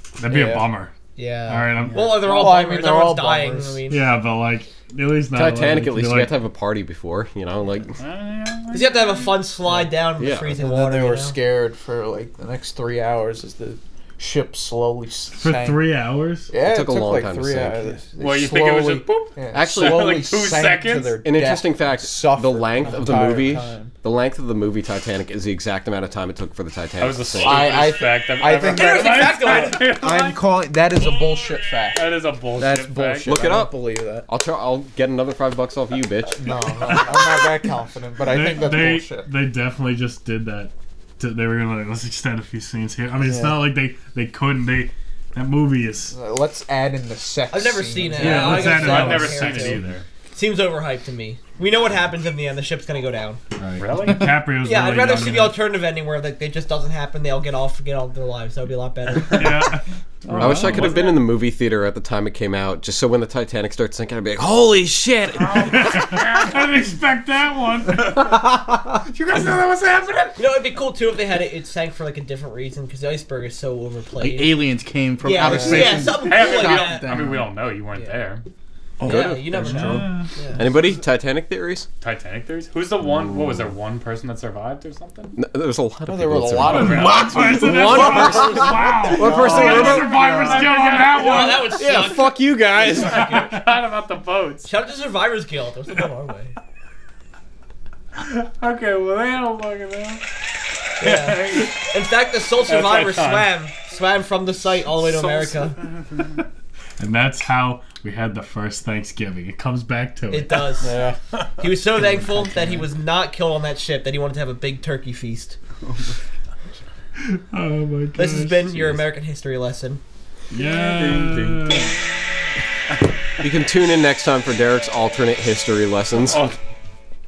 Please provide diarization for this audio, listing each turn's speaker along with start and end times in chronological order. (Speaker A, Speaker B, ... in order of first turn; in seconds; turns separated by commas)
Speaker A: 0.2-0.9, Speaker B: 0.2-0.7, Speaker C: 1.2-4.0, Speaker A: 1.5-2.3, Speaker B: 2.2-3.8, Speaker A: 3.9-6.4, Speaker D: 5.3-8.0, Speaker E: 8.0-9.4, Speaker C: 8.7-11.4, Speaker D: 10.2-10.5, Speaker B: 10.5-15.8, Speaker A: 15.4-16.5, Speaker B: 16.5-23.9, Speaker D: 16.6-17.8, Speaker E: 18.2-21.2, Speaker D: 19.5-20.2, Speaker D: 21.2-27.7, Speaker E: 27.0-30.4, Speaker B: 27.4-34.3, Speaker C: 28.6-29.8, Speaker E: 31.9-33.3, Speaker D: 33.2-36.5, Speaker B: 36.3-39.3, Speaker A: 38.2-46.2, Speaker B: 43.2-43.6, Speaker B: 46.1-48.8, Speaker C: 47.5-49.8, Speaker F: 48.2-48.8, Speaker A: 48.2-50.0, Speaker E: 48.4-50.0, Speaker C: 50.3-53.4, Speaker A: 53.6-55.6, Speaker E: 53.8-54.3, Speaker C: 54.6-59.8, Speaker A: 59.3-61.0, Speaker E: 60.3-61.2, Speaker D: 60.4-65.9, Speaker E: 65.4-66.6, Speaker A: 65.5-68.3, Speaker E: 68.0-68.4, Speaker E: 69.1-70.4, Speaker C: 70.4-74.6, Speaker F: 74.2-77.5, Speaker C: 75.2-77.1, Speaker B: 75.4-76.2, Speaker E: 75.9-78.4, Speaker F: 79.0-80.1, Speaker D: 79.0-79.4, Speaker C: 79.0-80.6, Speaker A: 79.9-80.3, Speaker D: 80.6-81.9, Speaker E: 82.0-85.4, Speaker D: 85.4-90.2, Speaker B: 86.1-88.6, Speaker A: 86.7-91.8, Speaker E: 89.2-91.7, Speaker C: 91.1-93.5, Speaker D: 91.6-93.4, Speaker E: 93.0-94.7, Speaker C: 94.7-96.5, Speaker E: 98.2-100.2, Speaker C: 101.0-105.8, Speaker E: 101.0-101.8, Speaker E: 102.7-103.5, Speaker E: 105.0-106.4, Speaker A: 107.0-110.7, Speaker C: 110.3-110.9, Speaker C: 111.6-115.6, Speaker E: 115.8-116.2, Speaker A: 117.2-119.0, Speaker C: 118.2-120.0, Speaker A: 120.5-122.0, Speaker E: 120.5-121.8, Speaker D: 123.4-126.4, Speaker E: 126.2-126.6